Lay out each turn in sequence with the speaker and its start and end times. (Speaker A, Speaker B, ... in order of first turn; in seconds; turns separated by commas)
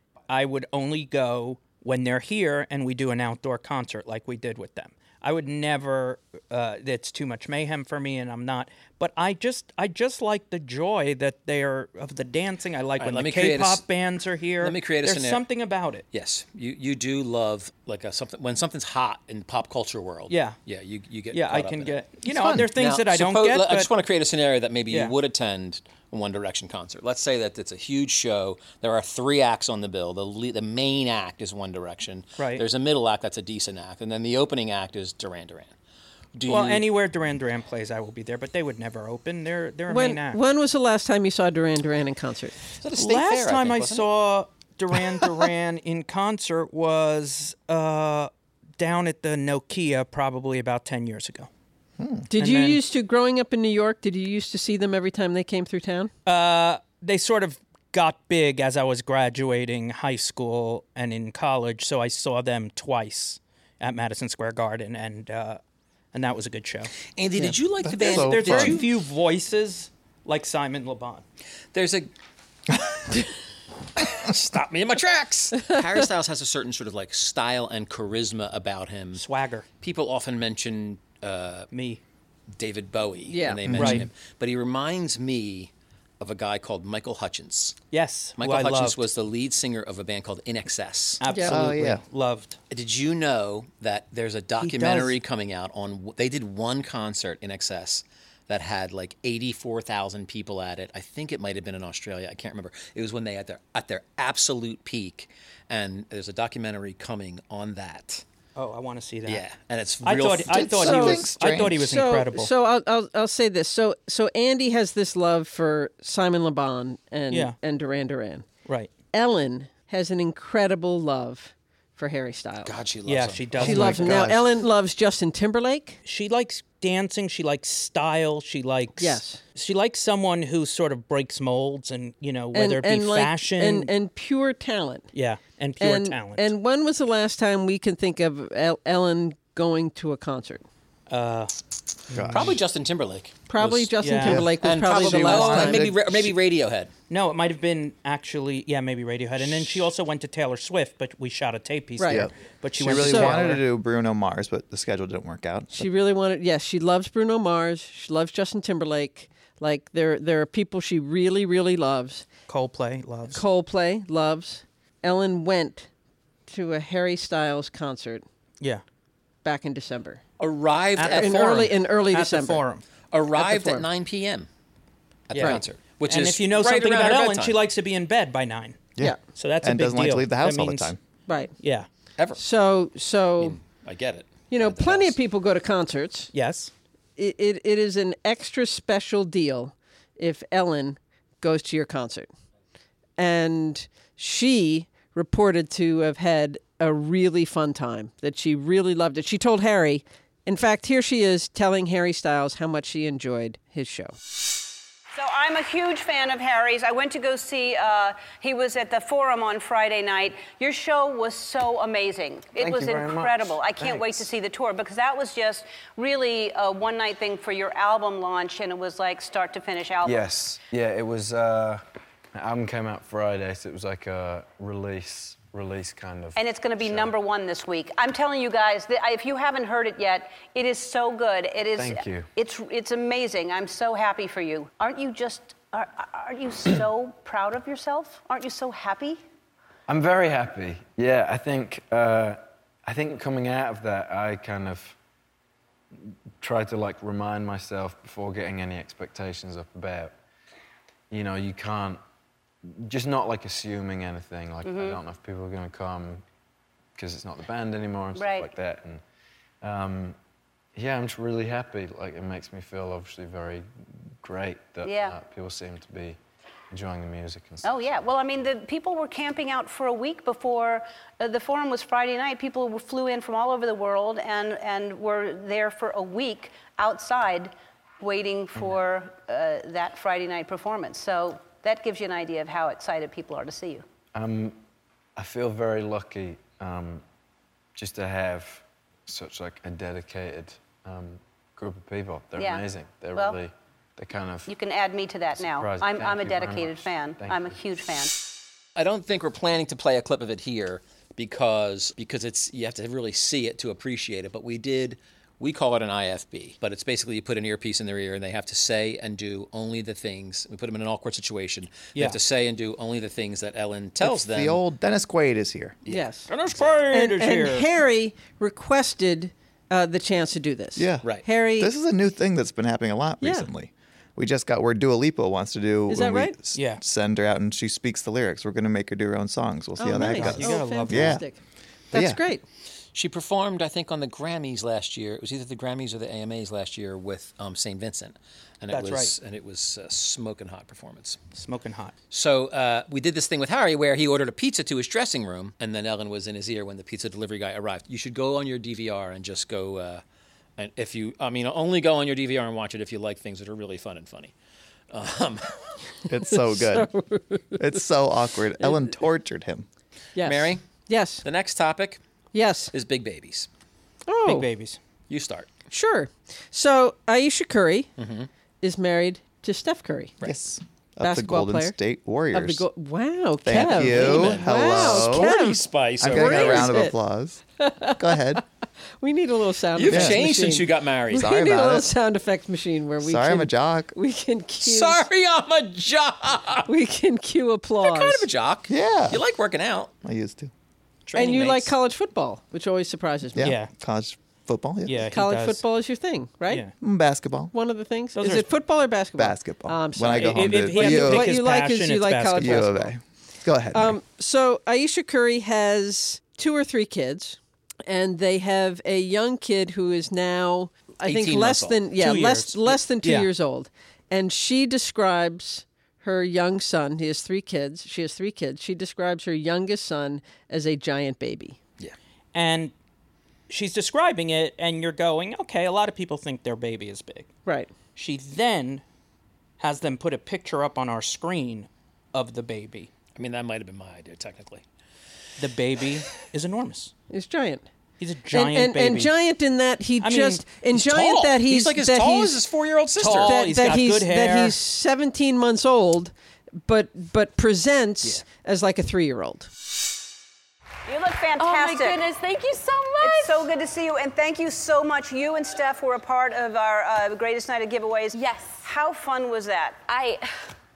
Speaker A: 0.3-16.0, Speaker B: 13.0-13.8, Speaker B: 14.6-15.4, Speaker B: 16.1-22.0, Speaker A: 20.3-20.6, Speaker A: 21.3-23.9, Speaker C: 22.2-22.7, Speaker B: 22.7-35.7, Speaker A: 32.4-32.6, Speaker B: 36.3-36.8, Speaker A: 36.5-40.4, Speaker D: 39.9-42.6, Speaker B: 42.8-44.1, Speaker A: 43.0-51.5, Speaker C: 52.0-52.3, Speaker D: 52.3-56.1, Speaker A: 52.4-52.8, Speaker A: 56.2-65.6, Speaker A: 66.1-66.9, Speaker B: 67.2-68.9, Speaker C: 67.8-68.8, Speaker A: 68.0-71.2, Speaker B: 71.7-72.1, Speaker B: 74.0-79.2, Speaker A: 79.1-79.7, Speaker B: 79.8-81.7, Speaker A: 81.7-82.0, Speaker B: 82.6-87.8, Speaker D: 83.3-83.6, Speaker C: 83.7-84.1, Speaker A: 83.7-84.1, Speaker A: 87.9-89.0, Speaker B: 88.4-91.2, Speaker A: 91.2-92.6, Speaker D: 91.3-91.5, Speaker C: 91.5-92.0, Speaker B: 92.7-108.2, Speaker A: 94.6-95.1, Speaker A: 108.5-109.4, Speaker B: 109.2-110.8, Speaker A: 110.0-112.5, Speaker C: 110.5-111.8, Speaker D: 110.8-118.5, Speaker A: 117.3-117.5, Speaker A: 118.6-118.9, Speaker D: 119.1-122.7, Speaker B: 122.6-124.0, Speaker A: 123.0-124.3, Speaker C: 123.6-124.5, Speaker D: 123.6-126.0, Speaker A: 126.0-133.9, Speaker D: 129.0-129.4, Speaker D: 132.5-135.1, Speaker A: 135.1-136.5, Speaker D: 135.8-140.6, Speaker A: 141.1-141.5, Speaker A: 142.1-142.6, Speaker C: 142.1-142.5, Speaker B: 142.3-143.9, Speaker D: 143.5-145.9, Speaker A: 144.0-144.5, Speaker C: 144.2-146.3, Speaker B: 144.6-146.9, Speaker A: 147.1-153.6, Speaker D: 152.0-152.3, Speaker C: 152.1-155.9, Speaker D: 152.9-153.5, Speaker D: 155.7-162.3, Speaker A: 162.5-163.4, Speaker D: 163.3-165.9, Speaker D: 166.5-168.2, Speaker D: 169.4-170.2, Speaker B: 170.4-171.7, Speaker A: 170.9-172.8, Speaker D: 171.1-172.6, Speaker B: 173.1-174.5, Speaker D: 173.3-173.8, Speaker B: 175.3-177.6, Speaker A: 175.3-180.9, Speaker C: 179.0-181.0, Speaker D: 181.3-181.5, Speaker A: 181.6-181.9, Speaker D: 182.3-183.6, Speaker B: 183.4-185.2, Speaker D: 184.5-186.3, Speaker A: 186.3-186.7, Speaker D: 187.2-192.3, Speaker D: 193.2-204.2, Speaker E: 205.1-220.2, Speaker F: 212.6-214.3, Speaker F: 220.0-221.8, Speaker F: 222.3-227.1, Speaker E: 226.4-239.2, Speaker F: 231.7-232.3, Speaker F: 239.9-244.9, Speaker F: 246.4-250.2, Speaker F: 251.1-252.0, Speaker F: 252.6-256.2, Speaker E: 254.6-255.0, Speaker F: 256.9-259.0, Speaker E: 258.1-258.5, Speaker F: 259.6-260.2, Speaker F: 260.7-263.7, Speaker F: 264.2-266.2, Speaker E: 264.8-265.1, Speaker F: 266.7-268.0, Speaker E: 267.6-283.8, Speaker F: 284.1-284.6, Speaker F: 285.1-287.0, Speaker F: 287.8-294.5, Speaker E: 292.4-293.4, Speaker E: 294.5-298.1, Speaker F: 295.4-297.6, Speaker B: 298.8-314.6, Speaker C: 314.0-315.8, Speaker B: 315.8-316.6, Speaker D: 315.9-316.3, Speaker A: 316.3-317.7, Speaker D: 316.9-321.7, Speaker C: 320.8-331.2, Speaker D: 323.2-323.5, Speaker D: 325.9-326.3, Speaker A: 326.5-326.8, Speaker D: 329.8-331.4, Speaker A: 330.0-331.2, Speaker D: 331.9-332.4, Speaker C: 331.9-332.2, Speaker B: 332.9-341.2, Speaker A: 338.7-339.1, Speaker A: 341.3-341.9, Speaker B: 342.1-350.0, Speaker B: 350.6-354.3, Speaker B: 354.9-355.5, Speaker C: 356.1-356.9, Speaker D: 356.3-357.6, Speaker C: 357.5-359.7, Speaker D: 358.6-358.9, Speaker D: 360.1-361.2, Speaker B: 360.2-360.6, Speaker B: 361.2-362.0, Speaker D: 362.3-362.7, Speaker B: 362.7-363.5, Speaker D: 364.1-364.5, Speaker A: 364.2-364.8, Speaker B: 365.1-365.5, Speaker D: 365.7-367.9, Speaker B: 368.0-368.3, Speaker D: 368.6-370.1, Speaker C: 370.2-372.7, Speaker D: 371.0-371.8, Speaker D: 372.3-376.9, Speaker C: 373.4-375.4, Speaker B: 373.7-376.8, Speaker C: 376.0-378.4, Speaker D: 377.6-378.4, Speaker D: 379.0-385.0, Speaker B: 379.7-381.3, Speaker C: 379.9-380.2, Speaker C: 381.1-381.9, Speaker C: 383.0-383.9, Speaker B: 384.6-386.7, Speaker D: 386.7-388.3, Speaker B: 387.8-389.9, Speaker C: 388.7-389.2, Speaker C: 390.0-390.5, Speaker B: 391.1-391.7, Speaker D: 391.1-393.5, Speaker C: 393.4-395.1, Speaker A: 393.4-393.7, Speaker A: 394.9-395.6, Speaker D: 395.1-396.6, Speaker C: 396.8-397.5, Speaker D: 397.5-402.9, Speaker A: 398.1-398.5, Speaker C: 399.2-401.3, Speaker A: 400.1-402.8, Speaker C: 402.4-403.9, Speaker D: 403.7-421.6, Speaker B: 411.0-411.8, Speaker A: 412.0-413.3, Speaker A: 422.3-422.7, Speaker A: 423.5-427.3, Speaker A: 427.9-428.8, Speaker A: 429.6-432.9, Speaker B: 433.1-434.6, Speaker A: 435.4-436.9, Speaker D: 437.1-437.6, Speaker A: 438.0-439.1, Speaker D: 438.3-442.4, Speaker A: 440.0-440.4, Speaker B: 440.7-443.4, Speaker A: 443.0-444.6, Speaker D: 443.0-446.1, Speaker D: 446.6-449.5, Speaker E: 450.9-452.0, Speaker G: 451.4-453.5, Speaker E: 453.0-459.8, Speaker G: 458.1-458.6, Speaker G: 459.9-460.3